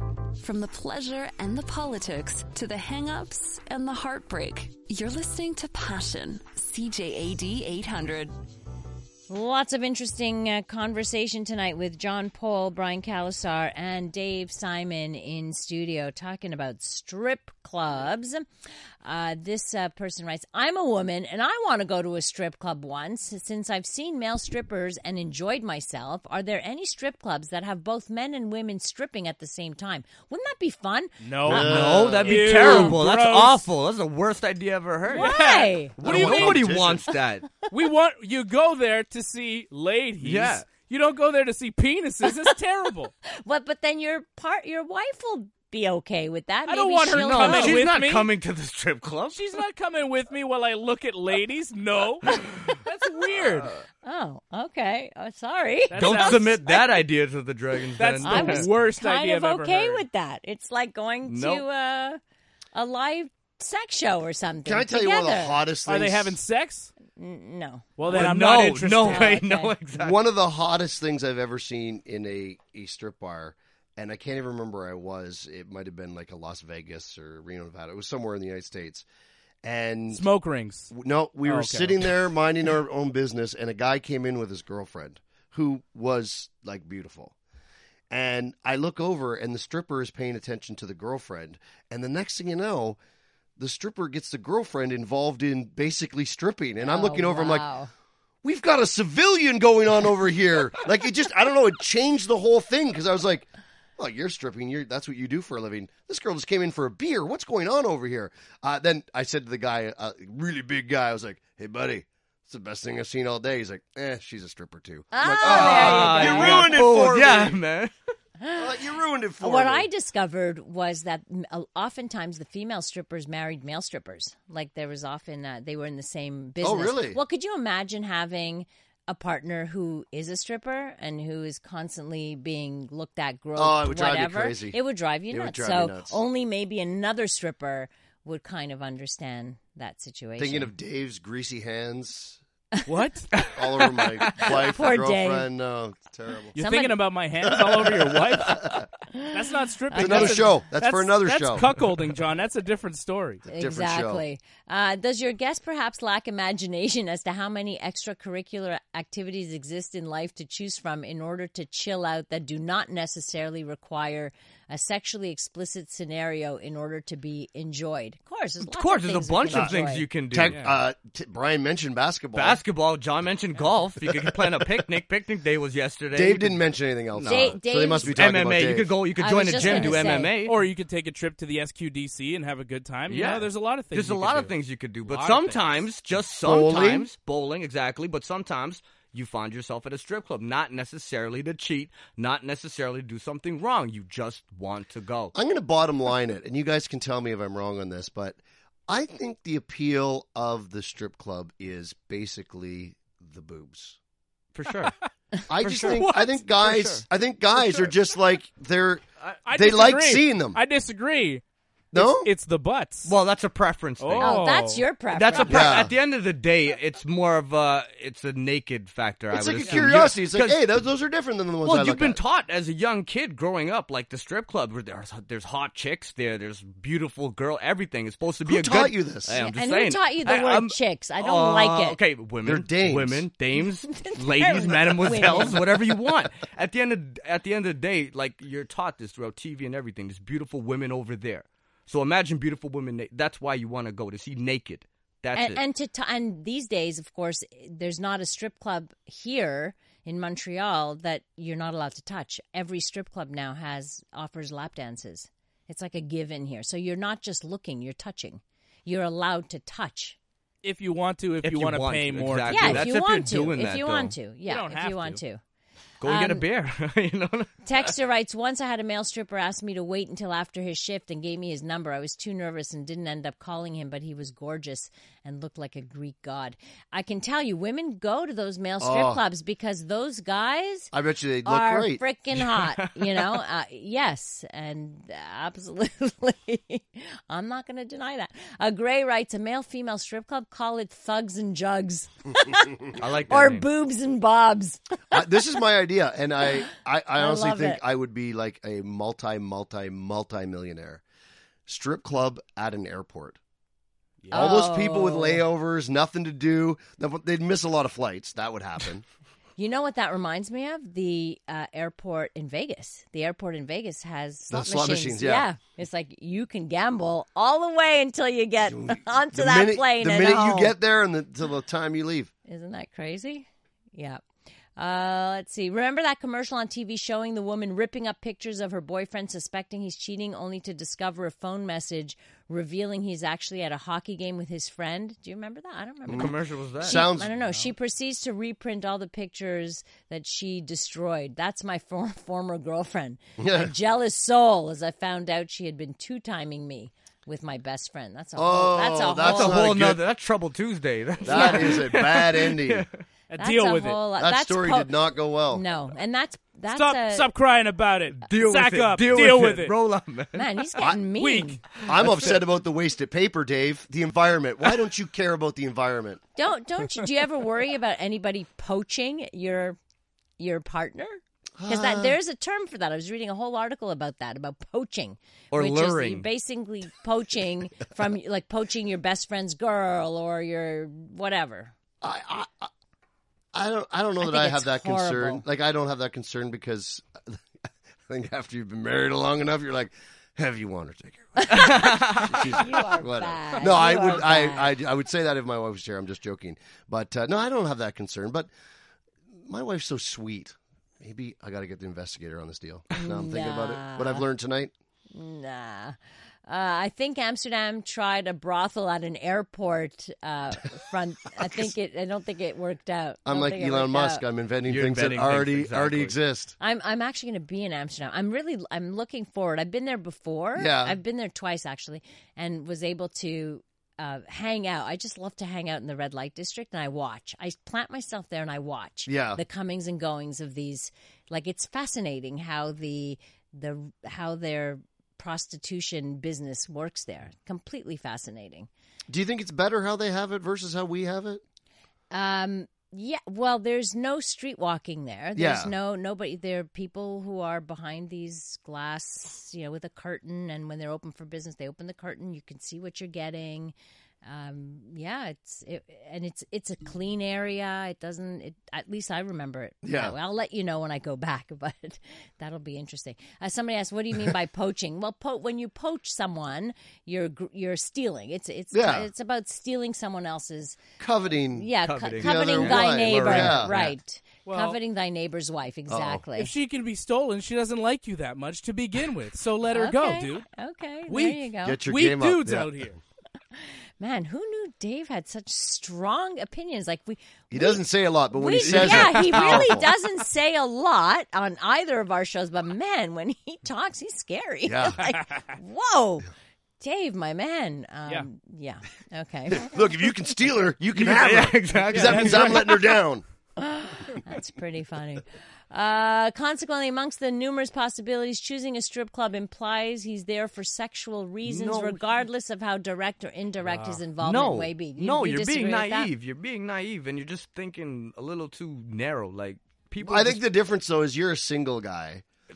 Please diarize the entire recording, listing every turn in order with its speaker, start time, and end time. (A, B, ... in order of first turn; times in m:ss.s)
0:00.4-0:08.4 A
0:09.3-0:18.4 B
0:19.0-0:31.1 B
0:31.2-0:33.6 C
0:31.4-0:32.5 D
0:31.4-0:37.5 E
0:32.5-0:33.0 B
0:35.1-0:36.6 C
0:35.1-0:36.0 B
0:36.0-0:37.1 D
0:37.7-0:43.1 C
0:40.2-0:40.7 E
0:43.2-0:47.9 B
0:46.7-0:48.3 C
0:47.1-0:49.4 E
0:49.3-0:53.8 C
0:53.4-0:53.7 E
0:54.0-0:57.0 B
0:55.9-0:56.8 C
0:56.0-0:58.7 E
0:58.0-1:00.0 C
0:58.2-1:02.2 B
1:01.3-1:01.6 E
1:02.7-1:05.6 B
1:04.7-1:06.4 D
1:05.9-1:06.9 C
1:07.2-1:08.3 B
1:08.0-1:09.4 C
1:08.1-1:10.2 E
1:09.0-1:09.8 B
1:10.0-1:19.0 D
1:19.6-1:20.2 D
1:20.1-1:20.9 C
1:20.9-1:27.3 D
1:21.5-1:22.1 C
1:28.1-1:33.0 D
1:33.6-1:37.7 D
1:36.8-1:37.9 B
1:38.4-1:43.5 D
1:44.0-1:57.6 D
1:55.1-1:56.8 B
1:55.4-1:57.9 E
1:58.4-1:58.7 B
1:58.6-1:59.9 D
1:59.4-2:20.7 B
2:06.6-2:07.2 D
2:13.6-2:14.8 D
2:15.3-2:16.2 D
2:20.4-2:22.4 D
2:22.9-2:23.4 C
2:23.4-2:24.3 E
2:23.4-2:26.6 D
2:24.4-2:25.5 B
2:26.6-2:33.4 C
2:26.6-2:27.0 B
2:27.4-2:28.8 D
2:29.9-2:30.4 B
2:30.0-2:31.7 D
2:33.5-2:34.2 D
2:33.5-2:50.1 B
2:48.6-2:50.6 E
2:49.5-2:52.6 D
2:50.5-2:50.7 C
2:52.4-2:56.6 E
2:54.1-2:54.8 D
2:56.1-2:58.9 D
2:57.1-3:00.6 E
2:57.3-2:58.2 B
2:59.2-3:00.3 B
2:59.6-3:04.5 C
3:03.1-3:15.4 E
3:05.1-3:05.8 C
3:06.4-3:07.1 D
3:15.4-3:24.0 D
3:24.6-3:25.0 E
3:25.5-3:30.6 D
3:25.5-3:27.0 E
3:29.4-3:31.4 C
3:31.9-3:32.3 D
3:31.9-3:33.1 C
3:33.0-3:34.5 E
3:34.0-3:34.8 C
3:34.2-3:35.8 B
3:35.1-3:40.6 E
3:35.5-3:35.9 D
3:39.3-3:42.2 D
3:41.6-4:05.6 E
3:48.5-3:49.4 D
3:49.4-3:52.0 B
3:52.4-3:53.3 D
3:53.9-3:55.8 B
4:05.4-4:20.2 B
4:20.6-4:22.9 C
4:21.4-4:24.2 E
4:22.5-4:25.4 B
4:24.5-4:25.2 C
4:26.0-4:27.9 E
4:26.0-4:26.4 B
4:27.6-4:40.9 B
4:38.8-4:39.2 D
4:40.9-4:42.0 D
4:41.4-4:55.2 B
4:42.4-4:43.3 E
4:52.9-4:53.7 E
4:55.1-5:01.0 D
4:57.2-4:57.8 B
5:01.7-5:03.4 D
5:04.2-5:04.5 C
5:04.3-5:05.4 B
5:04.3-5:09.0 D
5:09.6-5:20.8 B
5:14.5-5:15.5 D
5:18.6-5:22.3 D
5:22.5-5:24.2 B
5:24.8-5:49.6 B
5:36.1-5:37.6 D
5:36.2-5:37.1 E
5:43.4-5:43.7 D
5:48.4-5:50.0 D
5:49.2-5:53.0 E
5:51.2-5:52.9 D
5:53.3-5:54.0 C
5:53.4-5:54.9 B
5:54.2-5:55.6 D
5:55.5-5:57.3 B
5:56.7-5:59.7 C
5:58.2-6:00.5 E
6:00.3-6:01.6 B
6:01.1-6:01.6 C
6:01.8-6:02.3 E
6:01.8-6:06.2 D
6:06.4-6:09.8 B
6:10.4-6:21.7 B
6:11.6-6:12.2 D
6:15.5-6:16.3 E
6:22.0-6:22.7 D
6:23.5-6:27.4 D
6:24.2-6:25.4 B
6:28.1-6:38.5 D
6:31.4-6:34.8 B
6:31.5-6:32.4 E
6:39.4-6:44.7 D
6:43.0-6:44.3 B
6:45.1-6:54.2 B
6:53.3-6:56.6 D
6:54.7-6:56.2 E
6:56.6-7:18.7 B
7:00.6-7:01.0 D
7:09.1-7:09.4 D
7:19.1-7:21.4 D
7:22.1-7:50.8 B
7:25.4-7:25.7 D
7:39.8-7:40.2 D
7:48.7-7:49.1 D
7:51.0-7:53.7 D
7:51.5-7:56.5 B
7:51.8-7:53.9 E
7:54.5-7:54.8 C
7:55.9-7:56.2 D
7:56.4-8:00.5 C
7:59.7-8:01.8 B
8:01.1-8:03.0 C
8:01.6-8:02.9 D
8:03.6-8:07.8 B
8:07.5-8:09.9 D
8:08.3-8:19.7 B
8:14.7-8:15.0 D
8:19.5-8:23.2 D
8:21.0-8:22.8 E
8:21.8-8:22.6 C
8:23.6-8:36.1 B
8:31.4-8:32.0 E
8:33.6-8:34.0 C
8:34.2-8:40.4 E
8:40.0-8:42.2 D